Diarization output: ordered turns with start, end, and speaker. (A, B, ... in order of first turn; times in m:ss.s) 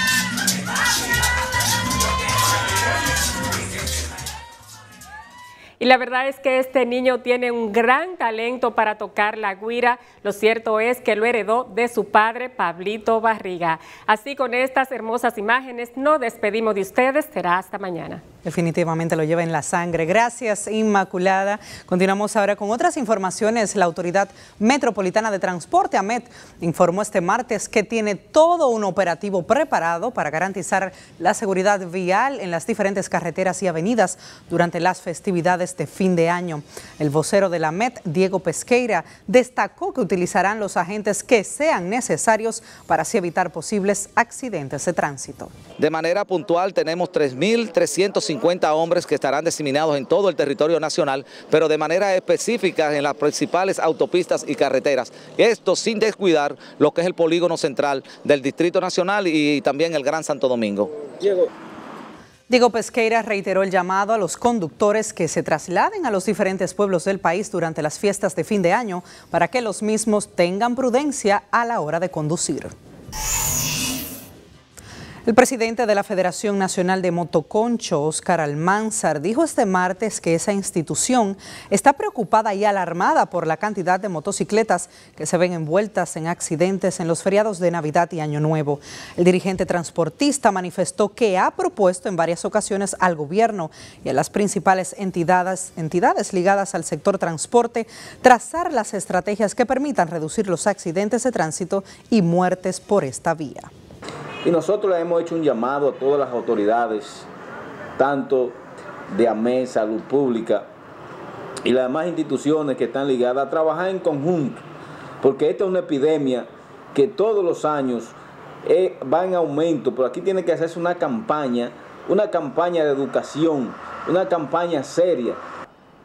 0:05.8-0:18.2 A
0:18.4-0:45.5 B
0:45.8-1:00.9 C
1:01.2-1:01.5 D
1:02.5-1:12.7 B
1:15.2-1:43.7 B
1:44.4-1:47.3 D
1:48.0-1:48.6 D
1:49.1-1:50.7 D
1:51.6-1:54.6 D
1:55.2-2:05.4 D